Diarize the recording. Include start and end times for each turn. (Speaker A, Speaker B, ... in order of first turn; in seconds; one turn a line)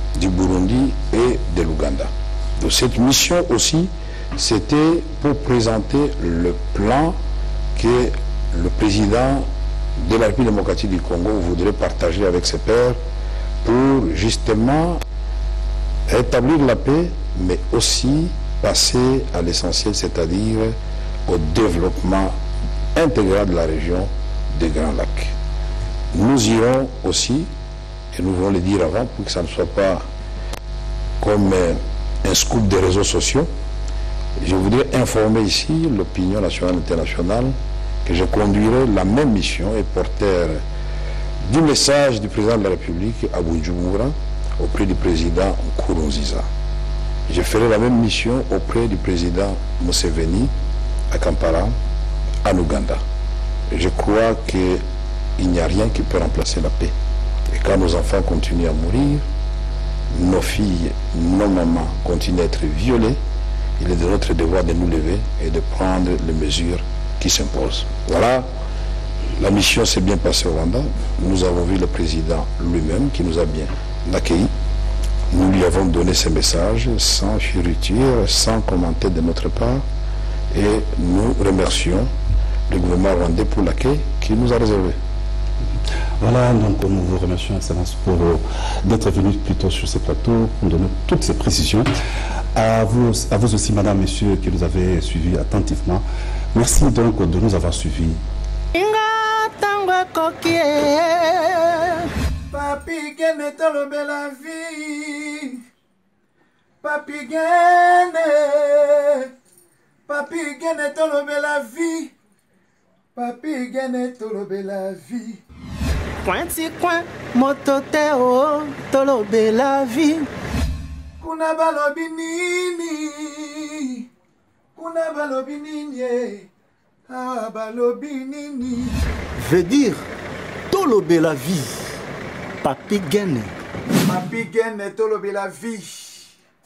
Speaker A: 0.1-7.2
Speaker A: 7.8-9.5
Speaker A: 10.0-13.0
Speaker A: 13.6-15.0
Speaker A: 16.1-20.8
Speaker A: 21.3-22.4
Speaker A: 22.9-25.3
Speaker A: 26.1-27.5
Speaker A: 28.1-30.1
Speaker A: 31.2-33.5
Speaker A: 34.4-40.6
Speaker A: 41.4-46.5
Speaker A: 47.3-50.5
Speaker A: 51.1-51.7
Speaker A: 52.4-53.0
Speaker A: 53.7-54.8
Speaker A: 55.4-56.9
Speaker A: 57.5-59.3
Speaker A: 60.1-63.2
Speaker A: 63.8-68.5
Speaker A: 69.4-74.5
Speaker A: 75.3-79.8
Speaker A: 80.5-82.1
Speaker A: 82.7-85.0
Speaker B: 86.2-91.9
Speaker B: 92.5-98.2
Speaker C: 98.7-102.1
Speaker D: 102.5-105.6
Speaker D: 106.8-109.3
Speaker D: 110.1-112.1
Speaker D: 113.2-115.4
Speaker C: 116.2-120.3
Speaker D: 121.2-124.1
Speaker D: 124.8-126.5
Speaker D: 127.1-129.0
Speaker C: 129.4-130.0
Speaker C: 130.7-131.8
Speaker C: 132.6-133.5
Speaker D: 134.1-136.3